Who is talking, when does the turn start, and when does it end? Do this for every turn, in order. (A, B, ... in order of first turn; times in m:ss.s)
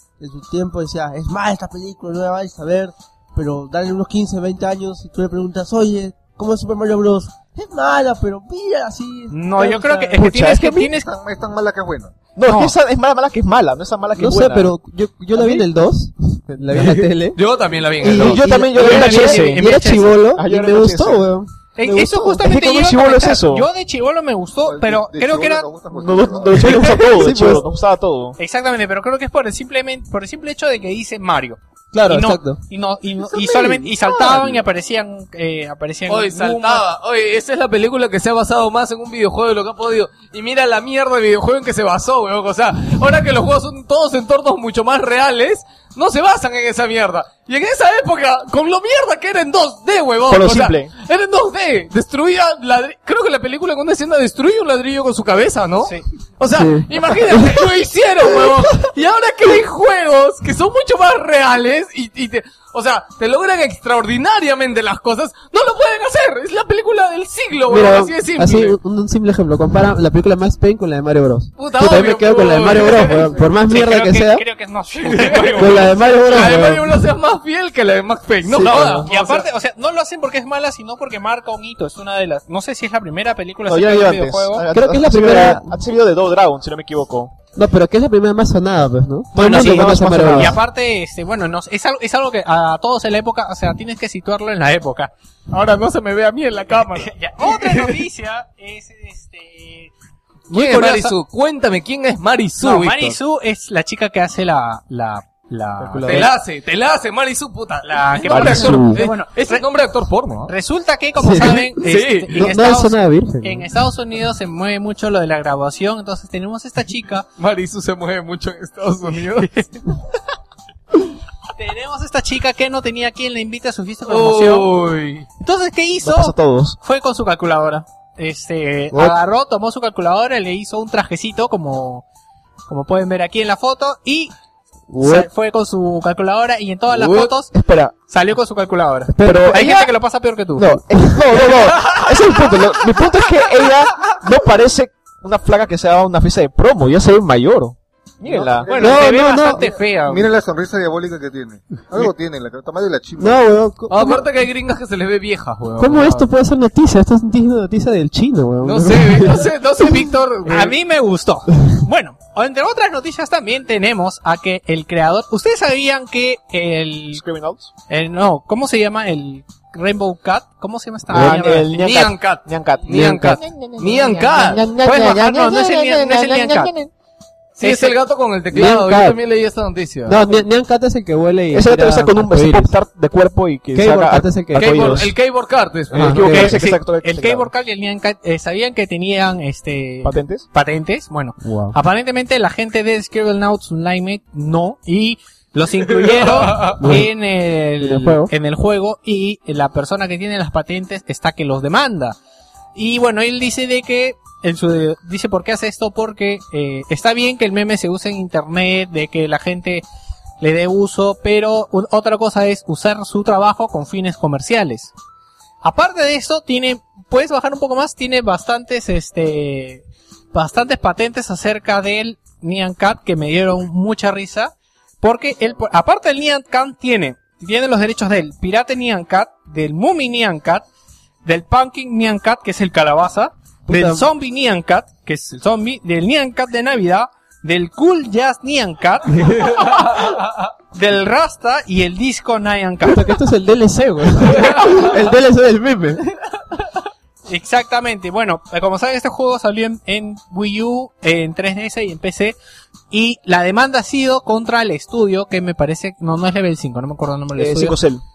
0:00.2-0:10.1 A
0:09.3-0:11.1 B
0:10.2-0:10.9 C
0:10.9-0:12.2 D
0:12.4-0:14.7 C
0:12.4-0:12.7 B
0:14.2-0:17.4 E
0:15.4-0:15.6 C
0:16.8-0:18.4 F
0:18.0-0:21.5 E
0:18.0-0:21.2 C
0:18.7-0:20.1 B
0:21.8-0:25.7 B
0:21.9-0:23.7 C
0:24.6-0:26.7 D
0:25.9-0:28.4 C
0:26.6-0:27.7 E
0:26.6-0:27.0 B
0:28.4-0:36.8 B
0:31.9-0:32.6 E
0:36.1-1:08.8 F
0:50.3-0:50.9 C
0:56.5-0:57.6 E
1:07.7-1:14.4 E
1:11.6-1:13.5 F
1:13.6-1:16.5 B
1:15.0-1:19.5 F
1:15.6-1:16.9 E
1:18.5-1:19.0 E
1:18.6-1:19.1 C
1:19.0-1:24.7 B
1:23.7-1:27.3 C
1:24.7-1:25.8 E
1:27.6-1:30.6 E
1:29.3-1:30.6 C
1:29.4-1:35.1 B
1:35.5-1:38.0 F
1:37.0-1:39.9 B
1:40.5-1:41.1 B
1:40.5-1:43.2 F
1:42.6-1:46.3 B
1:45.8-1:50.5 F
1:47.8-1:49.6 B
1:48.3-1:49.0 C
1:50.5-1:57.3 B
1:51.2-1:51.7 E
1:51.8-1:52.4 F
1:52.3-1:53.7 E
1:57.4-1:59.7 F
2:01.6-2:04.7 B
2:04.1-2:05.3 F
2:05.4-2:12.0 B
2:06.0-2:06.8 C
2:12.7-2:14.3 B
2:14.9-2:15.3 E
2:15.0-2:17.5 B
2:16.9-2:17.3 F
2:17.5-2:17.9 C
2:18.1-2:20.8 B
2:19.1-2:19.5 E
2:19.2-2:19.9 C
2:20.6-2:28.8 C
2:21.8-2:22.1 F
2:28.2-2:33.5 D
2:28.7-2:30.3 B
2:28.8-2:29.7 E
2:33.2-2:34.2 E
2:33.9-2:36.3 F
2:35.8-2:40.0 E
2:38.6-2:40.8 F
2:40.5-2:47.2 B
2:47.1-2:47.7 C
2:47.9-2:51.7 B
2:51.1-2:56.9 C
2:51.2-2:54.7 F
2:54.8-2:56.7 B
2:57.6-3:00.2 F
2:57.6-2:57.9 B
2:58.5-2:59.2 E
3:00.1-3:02.8 E
3:01.5-3:05.1 C
3:03.7-3:05.0 E
3:04.6-3:06.3 F
3:05.9-3:06.6 E
3:05.9-3:07.5 C
3:06.3-3:22.2 B
3:10.0-3:10.5 C
3:11.4-3:11.8 E
3:16.0-3:17.0 F
3:16.8-3:17.1 E
3:17.8-3:18.3 E
3:22.8-3:29.8 B
3:30.4-3:34.9 B
3:35.6-3:50.6 B
3:51.2-4:03.1 B
3:53.7-3:54.1 E
3:59.2-4:00.5 F
4:02.8-4:06.1 E
4:04.4-4:04.7 F
4:07.3-4:12.4 B
4:12.9-4:17.8 B
4:17.4-4:18.0 C